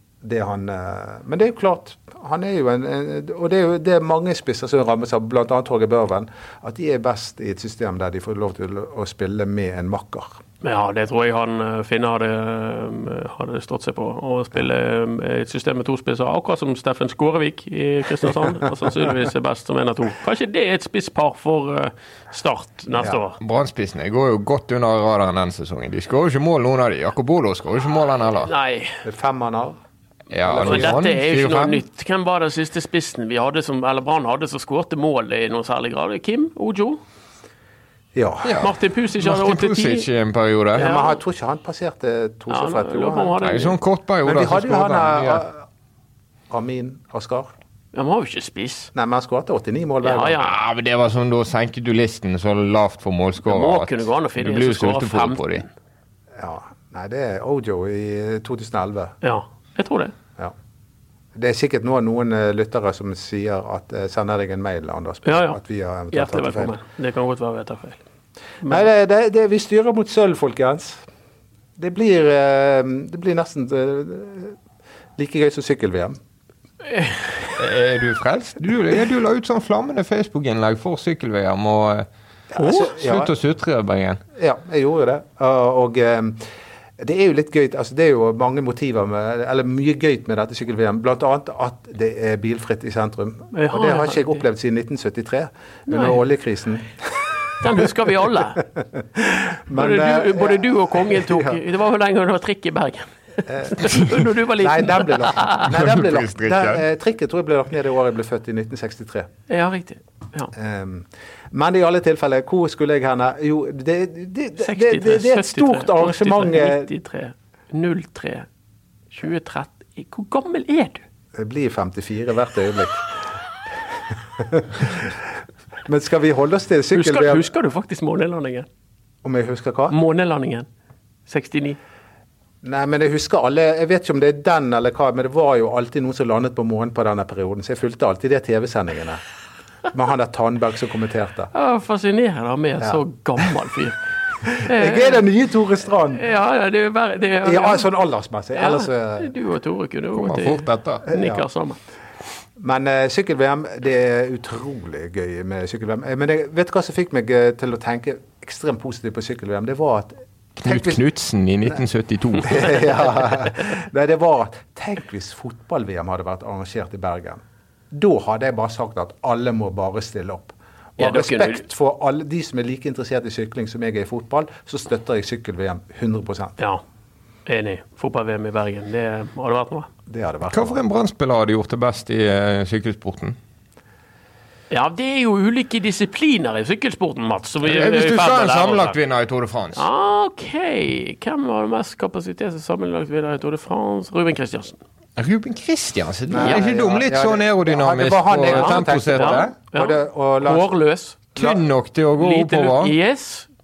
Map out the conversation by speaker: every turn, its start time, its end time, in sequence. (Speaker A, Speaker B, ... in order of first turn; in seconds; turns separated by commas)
Speaker A: 0.2-10.3, Speaker B: 10.6-23.4, Speaker C: 23.4-28.5, Speaker B: 28.4-29.0, Speaker A: 29.0-29.8, Speaker C: 30.3-31.8, Speaker A: 30.4-31.0, Speaker B: 30.6-37.0, Speaker A: 38.1-38.6, Speaker C: 38.4-40.9, Speaker B: 38.6-40.1, Speaker A: 40.8-43.4, Speaker B: 40.8-41.2, Speaker B: 42.5-43.7, Speaker C: 43.4-45.4, Speaker A: 44.2-45.6, Speaker A: 46.5-47.5, Speaker B: 47.9-48.9, Speaker A: 48.9-50.4, Speaker B: 50.0-50.5, Speaker C: 50.4-55.6, Speaker B: 53.4-55.6, Speaker A: 56.4-59.1, Speaker B: 59.2-60.1, Speaker A: 61.3-66.8, Speaker B: 65.2-65.6, Speaker B: 66.1-68.0, Speaker A: 68.6-71.0, Speaker A: 71.8-74.5, Speaker A: 75.2-76.2, Speaker B: 76.9-77.2, Speaker C: 77.6-84.2, Speaker A: 82.5-83.3, Speaker A: 84.3-86.5, Speaker A: 87.0-97.8, Speaker B: 93.5-94.4, Speaker B: 95.9-96.2, Speaker B: 97.6-98.7, Speaker A: 98.9-101.6, Speaker B: 99.7-105.7, Speaker A: 103.5-109.3, Speaker C: 105.7-106.8, Speaker B: 109.5-110.5, Speaker A: 110.5-116.9, Speaker B: 114.6-118.5, Speaker B: 119.1-121.0, Speaker A: 121.3-123.1, Speaker A: 123.9-125.2, Speaker A: 125.8-127.5, Speaker B: 126.9-128.7, Speaker A: 129.2-129.9, Speaker B: 129.9-130.7, Speaker B: 131.3-131.8, Speaker A: 132.6-139.2, Speaker A: 139.9-141.5, Speaker B: 141.5-144.0, Speaker A: 144.4-146.2, Speaker B: 144.6-145.2, Speaker B: 146.1-147.8, Speaker A: 147.4-149.3, Speaker B: 148.5-151.8, Speaker C: 150.1-151.0, Speaker A: 151.1-151.4, Speaker A: 152.6-161.0, Speaker C: 160.6-162.9, Speaker A: 162.4-176.6, Speaker B: 171.0-171.6, Speaker B: 177.4-179.9, Speaker A: 180.1-180.8, Speaker C: 180.5-183.4, Speaker B: 184.7-188.9, Speaker C: 187.6-189.8, Speaker B: 189.7-194.8, Speaker C: 195.2-199.5, Speaker A: 196.3-200.7, Speaker B: 198.5-201.2, Speaker C: 201.3-202.9, Speaker A: 201.3-201.6, Speaker B: 202.2-203.5